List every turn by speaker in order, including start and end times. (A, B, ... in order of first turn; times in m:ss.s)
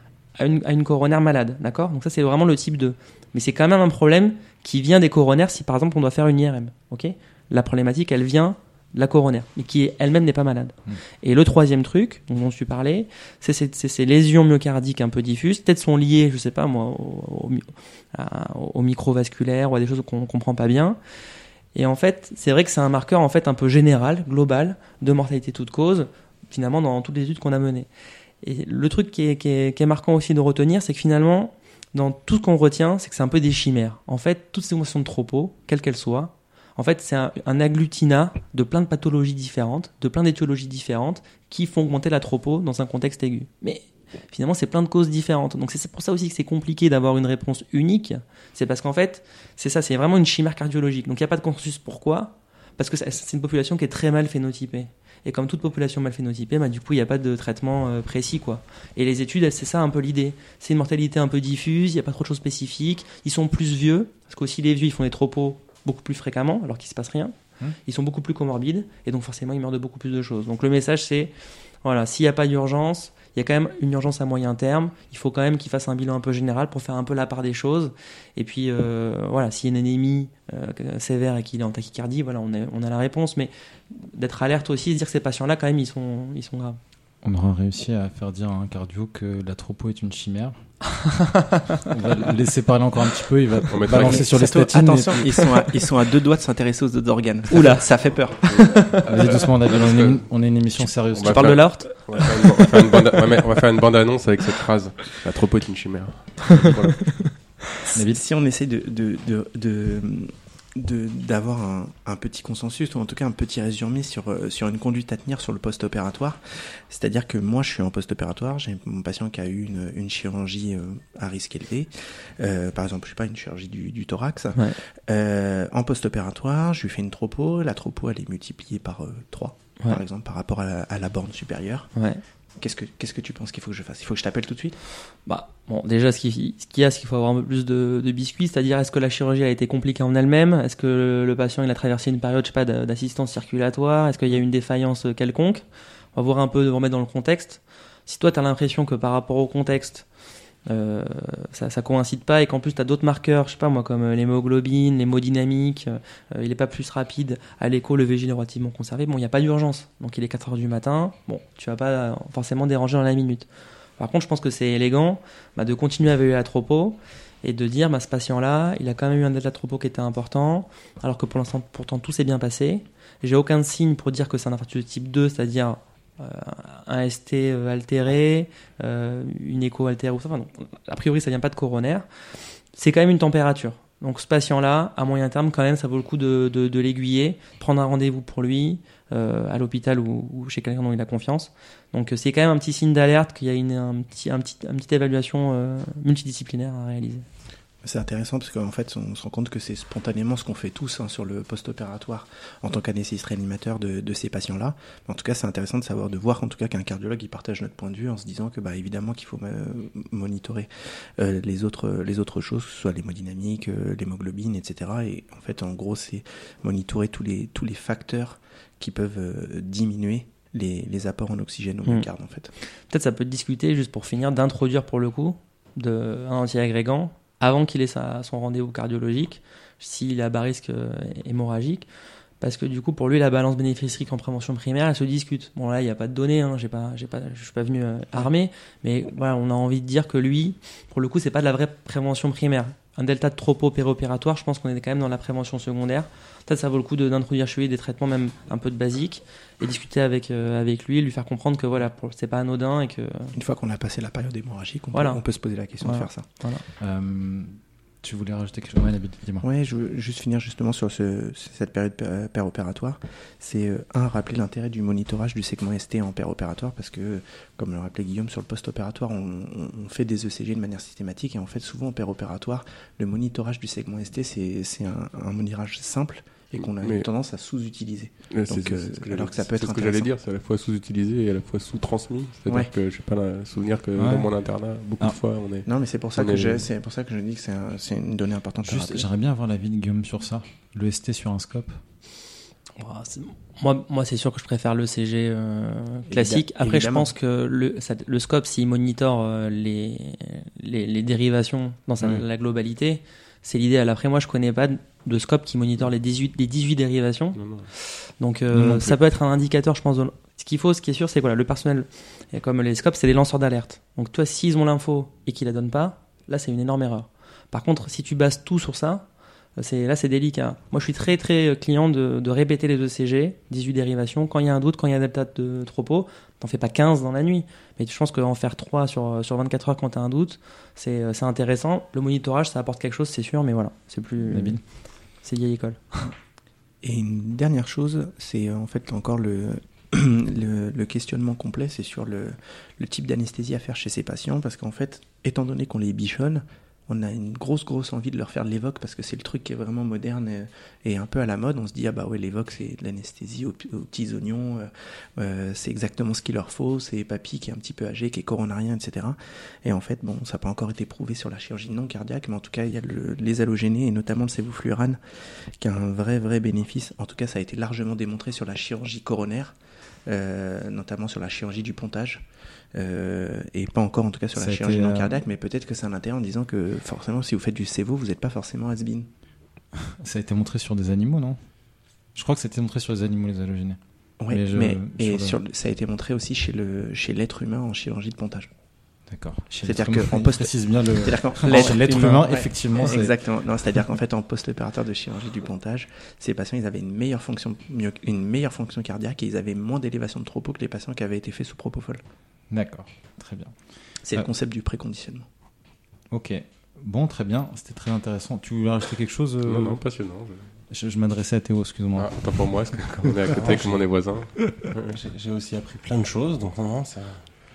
0:00.4-0:21.0 A
0:21.7-0:27.9 A
0:28.4-1:11.3 A
1:11.8-1:26.8 A
1:27.2-1:35.6 B
1:33.7-1:34.3 C
1:33.9-1:38.7 D
1:37.5-1:37.8 A
1:38.5-1:39.0 A
1:38.6-1:40.2 C
1:39.0-1:41.9 B
1:41.1-1:47.4 C
1:41.2-1:43.0 A
1:47.9-1:48.2 B
1:47.9-2:11.9 D
2:12.0-2:12.2 A
2:12.6-2:14.8 D
2:15.2-2:25.6 A
2:26.1-2:30.0 A
2:30.6-2:43.5 A
2:44.0-3:02.0 A
3:02.7-3:17.2 A
3:17.8-3:42.5 D
3:42.9-3:51.8 A
3:52.4-4:13.3 A
4:13.3-4:16.3 D
4:14.9-4:15.2 A
4:15.8-4:16.6 A
4:16.8-4:19.4 B
4:19.4-4:40.1 D
4:36.6-4:37.0 C
4:38.3-4:46.7 C
4:44.0-4:44.3 B
4:45.6-4:49.0 D
4:48.6-4:51.8 B
4:52.8-5:19.0 A
4:56.1-4:57.1 D
5:07.4-5:07.7 C
5:08.5-5:09.0 B
5:19.6-5:36.1 A
5:34.2-5:34.6 B
5:36.8-6:05.0 D
6:05.6-6:09.5 D
6:10.0-6:19.1 D
6:14.4-6:15.2 B
6:20.0-6:21.5 B
6:22.1-6:25.4 B
6:24.2-6:28.5 D
6:29.1-6:33.2 B
6:29.6-6:42.0 D
6:31.5-6:31.8 A
6:42.5-6:43.6 B
6:44.1-6:45.3 D
6:46.1-6:49.8 B
6:49.4-6:50.5 C
6:50.7-6:53.8 B
6:52.0-6:55.0 C
6:53.3-6:53.7 E
6:54.9-6:57.2 E